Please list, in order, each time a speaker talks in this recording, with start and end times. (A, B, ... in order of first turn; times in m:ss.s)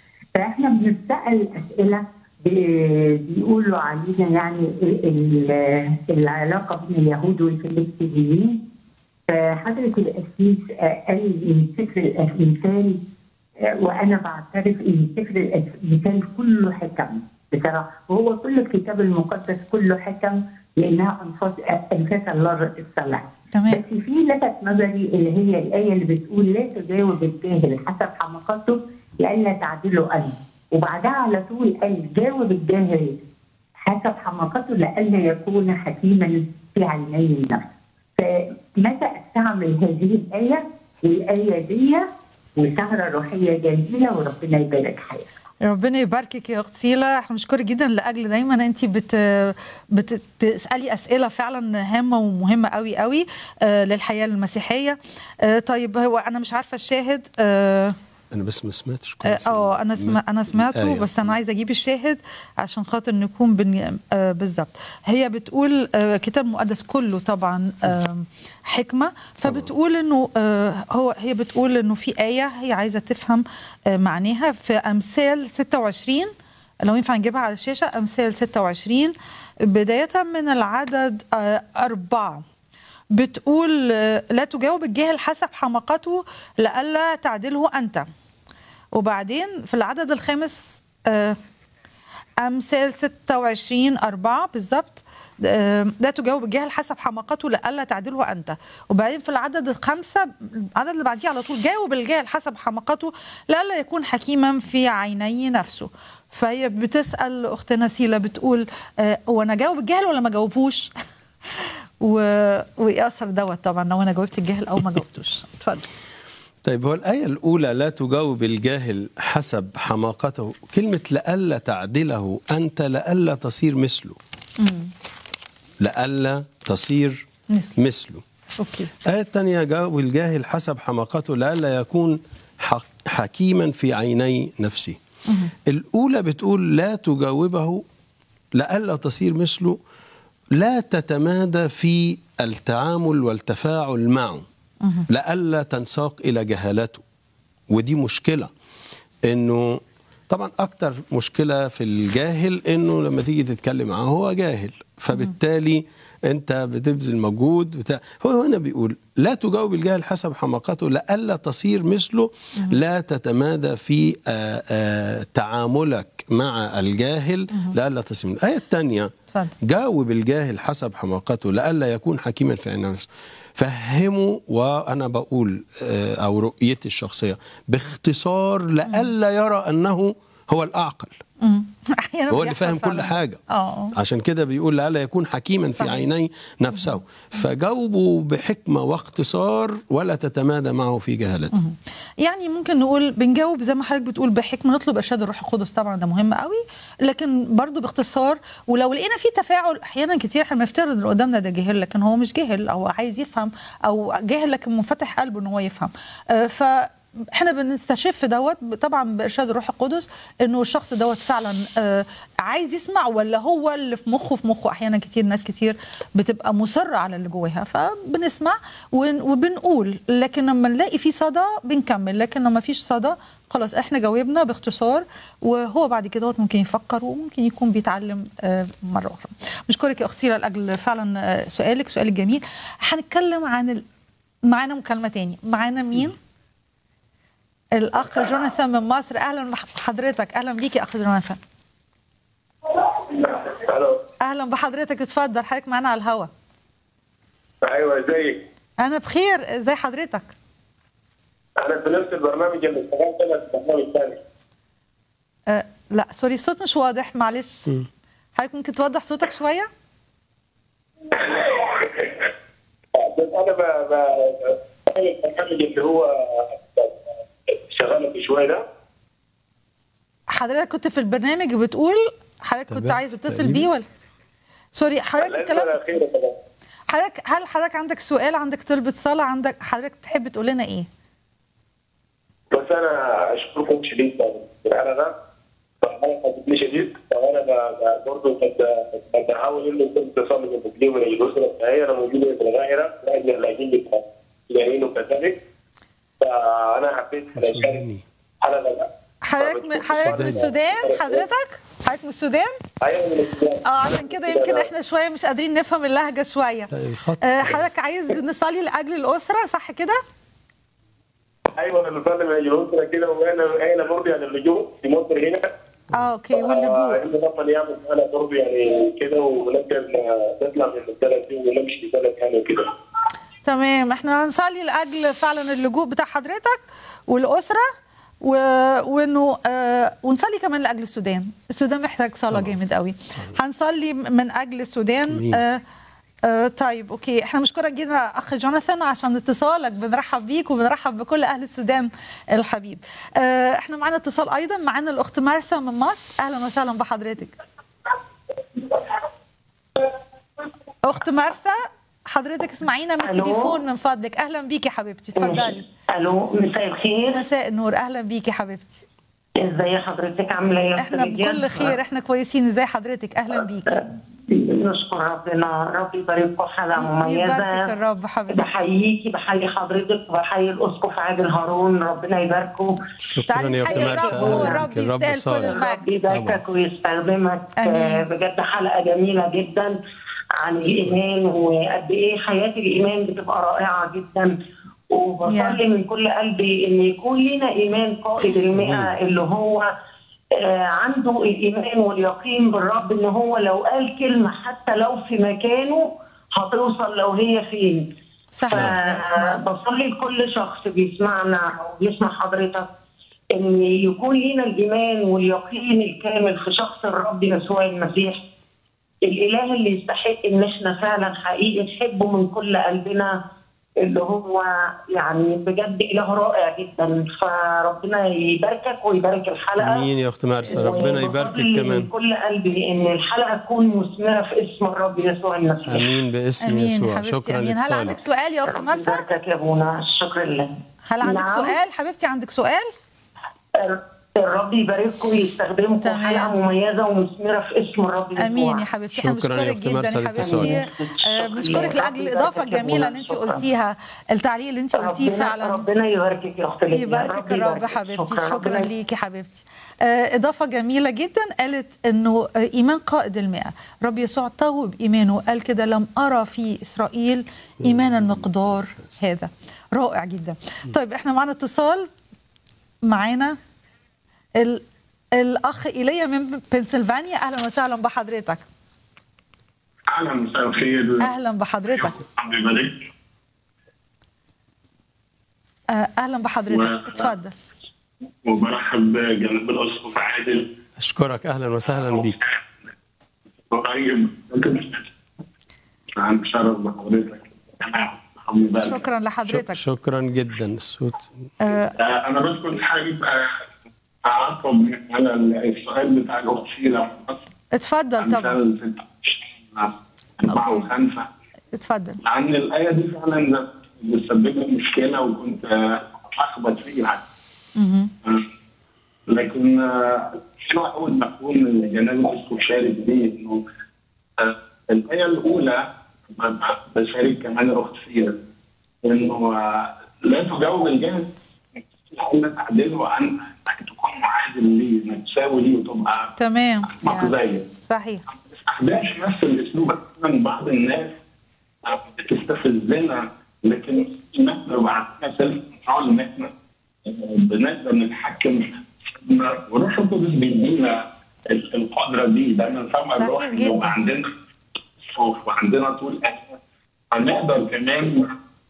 0:00.4-0:08.6 A
0:09.3-0:13.0 A
0:13.6-0:33.2 A
0:23.5-0:23.8 B
0:33.8-0:37.6 A
0:38.2-0:42.0 A
0:42.6-0:45.3 A
0:45.6-0:58.0 B
0:58.3-1:01.3 C
0:59.2-1:16.3 B
1:09.4-1:09.7 C
1:16.8-1:22.4 B
1:23.1-1:28.1 B
1:28.9-1:31.4 B
1:32.4-1:50.9 B
1:51.6-1:55.9 B
1:56.6-2:04.2 C
2:04.6-2:04.9 B
2:05.8-2:08.2 C
2:08.6-2:08.9 B
2:09.0-2:15.0 C
2:15.6-2:17.8 C
2:18.5-2:19.8 C
2:20.5-2:24.4 C
2:25.1-2:27.0 C
2:27.7-2:28.5 C
2:29.2-3:01.2 C
2:58.8-2:59.1 B
3:01.4-3:03.9 B
3:02.3-3:03.4 C
3:03.9-3:11.5 C
3:05.8-3:06.1 B
3:11.5-3:53.8 B
3:54.4-3:56.2 B
3:57.7-4:01.4 B
4:02.9-4:04.0 D
4:04.2-4:06.3 B
4:07.6-4:08.4 D
4:08.8-4:10.3 B
4:11.6-4:14.2 D
4:15.5-4:17.7 B
4:18.4-4:19.7 B
4:21.1-4:22.1 D
4:23.0-4:27.0 D
4:27.7-4:28.6 D
4:30.3-4:33.8 B
4:32.7-4:33.7 C
4:34.8-4:35.8 B
4:35.2-4:36.4 D
4:36.9-4:40.9 B
4:42.5-4:45.1 D
4:45.8-4:55.4 D
4:56.2-4:57.8 D
4:57.3-4:58.0 C
4:58.4-5:01.2 D
4:59.2-5:02.6 B
4:59.9-5:00.4 C
5:02.8-5:04.7 D
5:03.6-5:06.7 B
5:06.7-5:07.6 C
5:07.2-5:10.0 B
5:11.5-5:15.5 D
5:15.9-5:17.0 B
5:16.3-5:22.7 D
5:23.4-5:27.6 B
5:28.2-5:35.6 B
5:35.1-5:35.4 C
5:36.2-5:47.4 B
5:50.8-5:55.6 B
5:53.0-5:53.6 E
5:55.2-5:57.2 E
5:57.1-5:58.8 B
5:59.4-6:01.8 E
6:00.8-6:03.7 B
6:03.7-6:07.6 E
6:06.8-6:08.6 B
6:08.3-6:12.8 E
6:13.0-6:16.4 C
6:13.3-6:15.8 B
6:13.6-6:14.7 E
6:15.4-6:19.7 E
6:17.6-6:18.1 B
6:20.4-6:24.3 E
6:24.9-6:29.7 E
6:25.2-6:25.6 B
6:28.5-6:28.9 C
6:30.4-6:35.8 E
6:36.4-6:37.8 E
6:38.3-6:39.4 B
6:38.5-6:42.7 E
6:43.3-6:48.2 E
6:49.0-6:53.1 E
6:53.8-6:59.9 E
6:59.6-7:01.9 C
7:00.5-7:06.0 E
7:00.5-7:01.2 B
7:05.7-7:08.0 C
7:06.4-7:09.0 B
7:08.4-7:10.5 E
7:10.9-7:12.7 B
7:11.0-7:11.6 E
7:13.6-7:18.6 E
7:15.8-7:16.3 B
7:18.2-7:25.6 B
7:18.9-7:20.6 C
7:20.2-7:23.4 E
7:24.8-7:28.7 E
7:26.7-7:41.9 B
7:37.6-7:38.8 C
7:42.8-7:43.4 B
7:44.4-7:44.6 B
7:45.1-7:48.4 B
7:49.9-7:51.1 F
7:51.0-7:52.0 B
7:51.7-7:52.8 F
7:55.7-7:57.3 B
7:56.5-7:57.1 F
7:58.2-8:00.5 F
8:00.8-8:02.2 C
8:01.7-8:02.4 F
8:03.5-8:04.9 F
8:06.0-8:08.8 F
8:08.6-8:09.6 B
8:09.2-8:11.1 C
8:11.4-8:11.7 B
8:11.8-8:13.3 F
8:14.0-8:17.2 F
8:17.5-8:18.4 B
8:18.0-8:21.1 F
8:20.3-8:20.7 B
8:21.6-8:22.0 B
8:22.0-8:27.0 F
8:27.6-8:27.9 B
8:29.1-8:33.4 F
8:34.2-8:38.2 F
8:38.8-8:46.1 F
8:46.2-8:48.0 B
8:46.7-8:47.4 F
8:48.3-8:50.9 F
8:51.6-8:56.3 F
8:56.8-9:04.1 F
9:02.9-9:03.8 B
9:04.8-9:06.4 F
9:06.9-9:08.1 F